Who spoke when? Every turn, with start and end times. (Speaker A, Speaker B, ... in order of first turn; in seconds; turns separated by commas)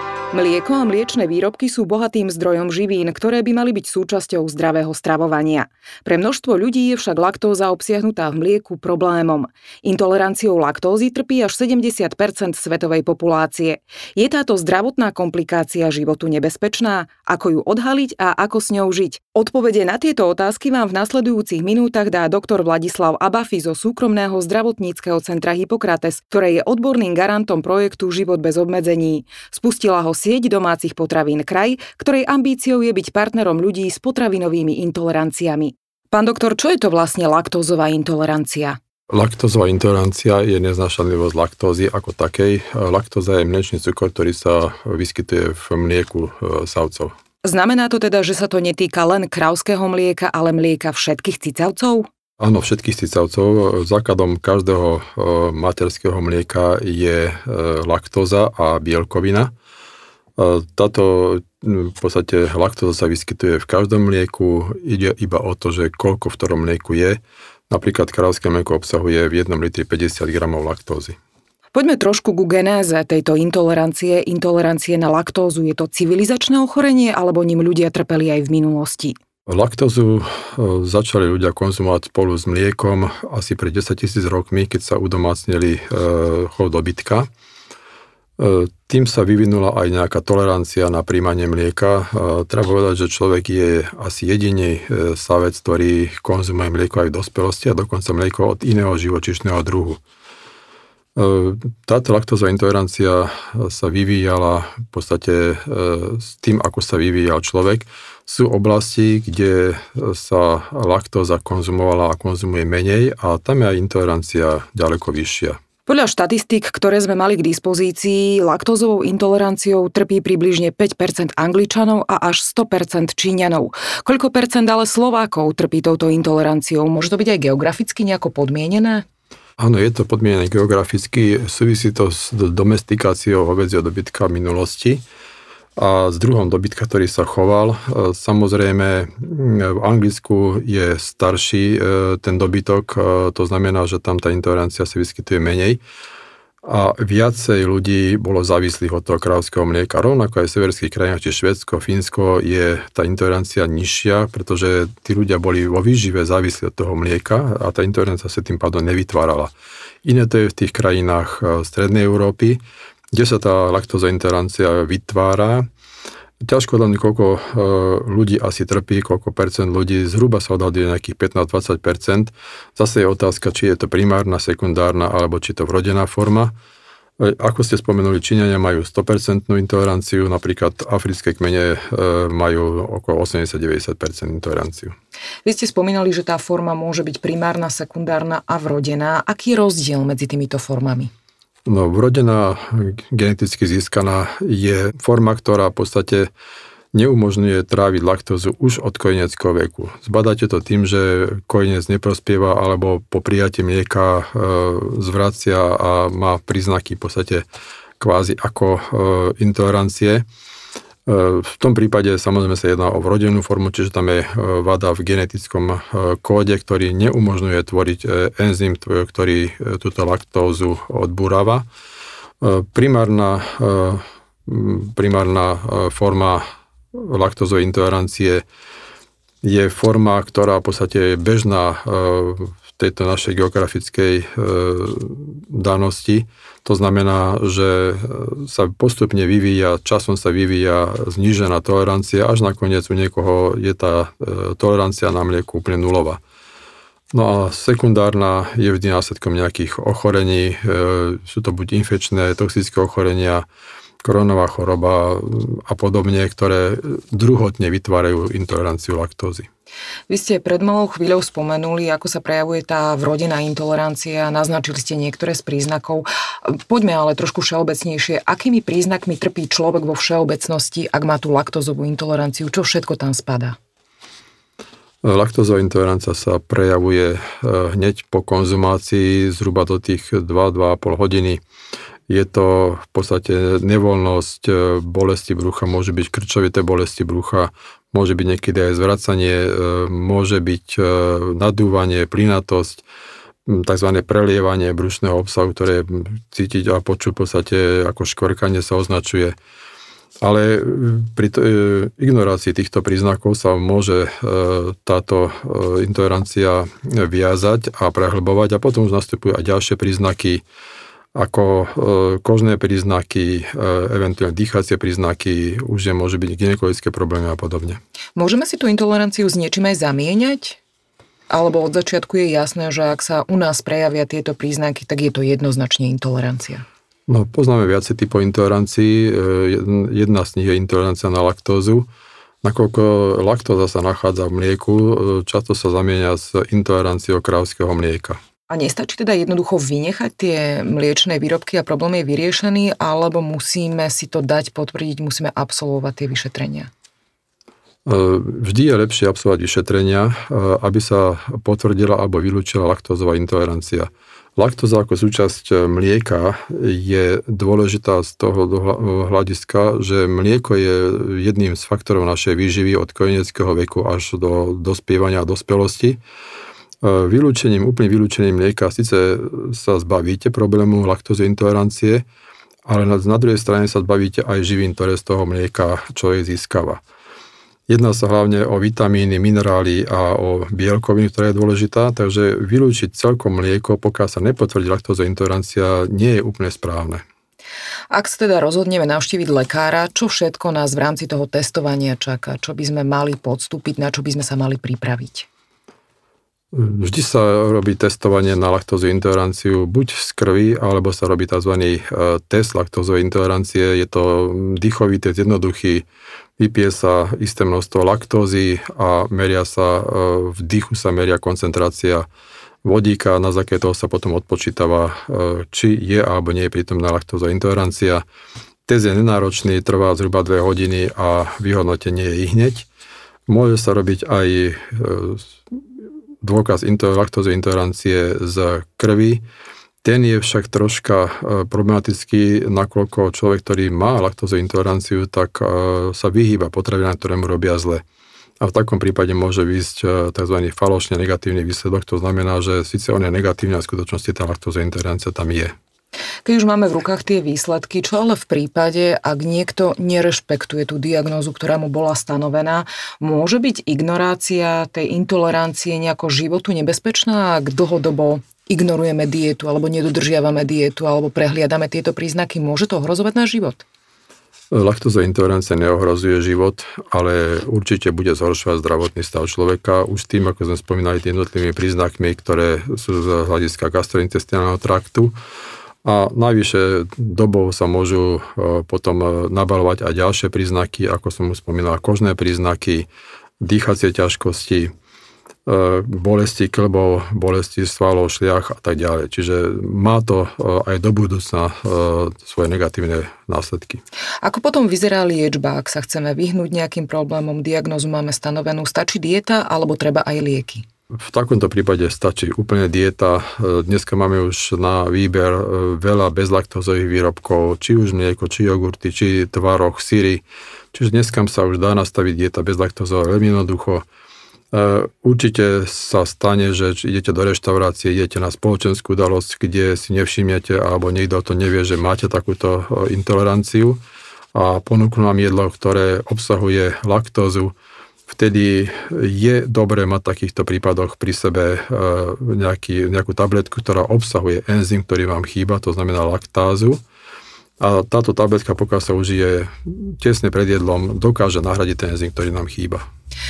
Speaker A: 0.3-38.8, Speaker B: 39.1-47.1, Speaker A: 47.4-52.1, Speaker B: 52.4-59.5, Speaker B: 60.4-71.2, Speaker A: 71.7-79.1, Speaker B: 79.5-87.3, Speaker B: 88.4-100.0, Speaker B: 101.2-115.6, Speaker A: 115.8-129.0, Speaker B: 129.6-135.0, Speaker B: 135.8-145.8, Speaker B: 146.6-159.5, Speaker B: 160.0-162.6, Speaker B: 163.1-165.7, Speaker B: 166.4-176.5, Speaker B: 177.2-184.9, Speaker A: 185.4-191.1, Speaker B: 191.7-196.3, Speaker B: 196.9-207.4, Speaker B: 208.0-210.2, Speaker B: 211.1-221.7, Speaker B: 222.4-226.4, Speaker B: 226.9-228.4, Speaker B: 229.4-246.2, Speaker B: 247.1-253.4, Speaker B: 254.0-259.5, Speaker A: 260.1-273.6, Speaker B: 275.0-281.4, Speaker B: 282.1-292.8, Speaker B: 293.5-299.3, Speaker B: 300.2-310.4, Speaker B: 311.1-317.8, Speaker A: 318.1-320.6, Speaker A: 321.3-326.6, Speaker B: 327.1-331.9, Speaker B: 332.4-338.2, Speaker A: 338.5-346.7, Speaker B: 347.9-366.0, Speaker B: 366.8-372.0, Speaker B: 372.6-376.8, Speaker B: 377.7-387.0, Speaker A: 387.9-395.3, Speaker B: 396.5-405.8, Speaker B: 406.4-412.1, Speaker B: 412.6-418.0, Speaker B: 418.7-422.7, Speaker B: 423.3-425.3, Speaker B: 426.2-429.2, Speaker B: 429.8-437.8, Speaker B: 438.4-445.5, Speaker A: 446.2-463.6, Speaker B: 464.5-475.1, Speaker B: 475.8-482.9, Speaker B: 483.4-484.7, Speaker B: 485.4-493.8, Speaker A: 494.2-500.6, Speaker B: 501.0-510.2, Speaker B: 510.7-513.8, Speaker B: 514.5-523.8, Speaker B: 524.3-527.5, Speaker B: 528.1-536.8, Speaker B: 537.6-542.8